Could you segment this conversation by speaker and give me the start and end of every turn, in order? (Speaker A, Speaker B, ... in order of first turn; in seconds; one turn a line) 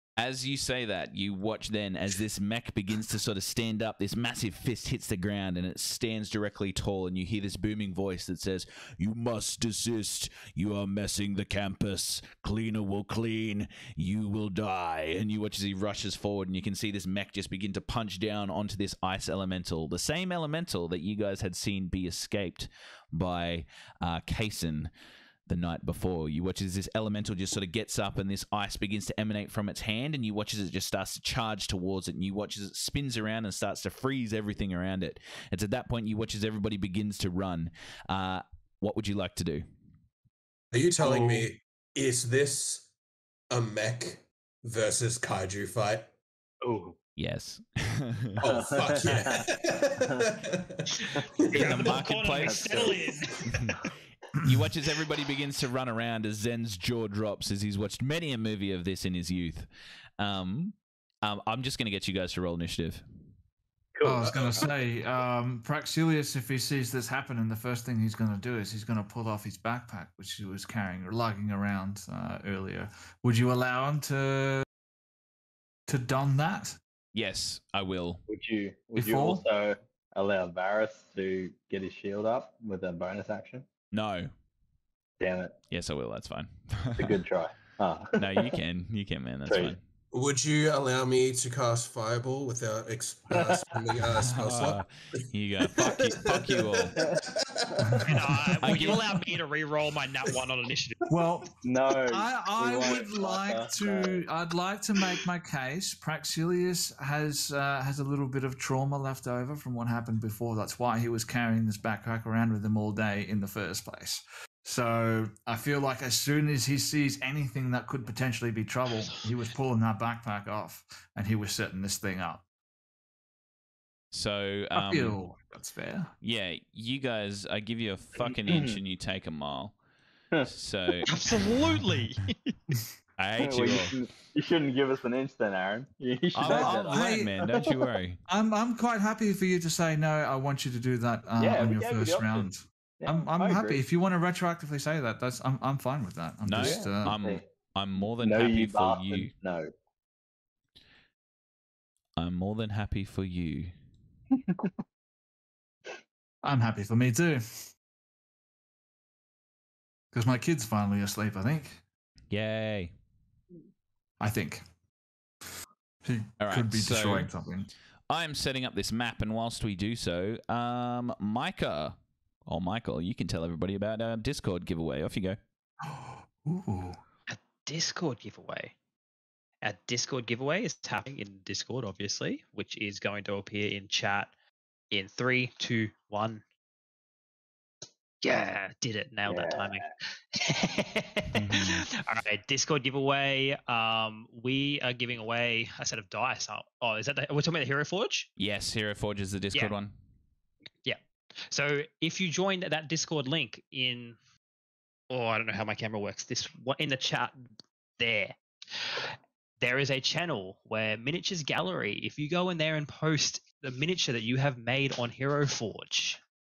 Speaker A: 0.2-24.9
Speaker A: 25.4-39.6
Speaker B: 40.7-42.9
Speaker C: 41.0-41.5
Speaker B: 43.5-46.1
Speaker C: 46.6-47.0
Speaker A: 47.2-48.4
Speaker B: 48.4-52.0
Speaker C: 48.4-49.4
Speaker C: 51.1-53.0
Speaker A: 51.5-52.9
Speaker D: 51.5-53.4
Speaker B: 52.7-53.6
Speaker A: 53.5-53.8
Speaker A: 54.4-59.7
Speaker A: 60.2-63.0
Speaker C: 63.9-64.7
Speaker E: 64.0-74.7
Speaker B: 64.2-64.7
Speaker E: 75.9-76.8
Speaker A: 77.1-78.2
Speaker C: 78.3-83.7
Speaker E: 79.0-79.4
Speaker A: 83.9-84.3
Speaker C: 85.2-85.5
Speaker A: 85.7-87.2
Speaker C: 87.0-88.5
Speaker A: 88.2-89.8
Speaker C: 89.5-89.7
Speaker B: 90.1-98.2
Speaker A: 94.3-97.0
Speaker C: 97.0-97.9
Speaker E: 97.9-98.9
Speaker D: 98.1-101.2
Speaker A: 98.6-99.0
Speaker E: 101.1-101.5
Speaker C: 101.6-104.2
Speaker E: 102.1-122.4
Speaker A: 124.1-125.2
Speaker E: 124.7-126.1
Speaker A: 126.2-129.8
Speaker C: 128.2-128.8
Speaker A: 130.4-131.1
Speaker D: 131.1-132.5
Speaker A: 133.2-133.9
Speaker C: 133.4-137.8
Speaker A: 136.3-138.2
Speaker E: 136.4-137.4
Speaker E: 138.3-147.2
Speaker C: 141.4-142.5
Speaker C: 143.0-143.8
Speaker A: 146.4-149.3
Speaker C: 146.6-147.4
Speaker C: 148.0-149.7
Speaker A: 152.2-153.7
Speaker E: 156.4-157.7
Speaker E: 160.1-161.8
Speaker A: 162.3-162.9
Speaker E: 164.2-164.6
Speaker E: 166.0-167.7
Speaker A: 166.4-167.3
Speaker A: 168.1-175.4
Speaker E: 175.8-177.0
Speaker D: 177.3-178.7
Speaker D: 179.6-184.3
Speaker D: 184.9-186.4
Speaker D: 188.2-198.3
Speaker C: 189.3-189.9
Speaker A: 191.3-191.9
Speaker A: 198.4-199.9
Speaker D: 200.8-204.2
Speaker D: 205.1-207.4
Speaker D: 208.0-216.2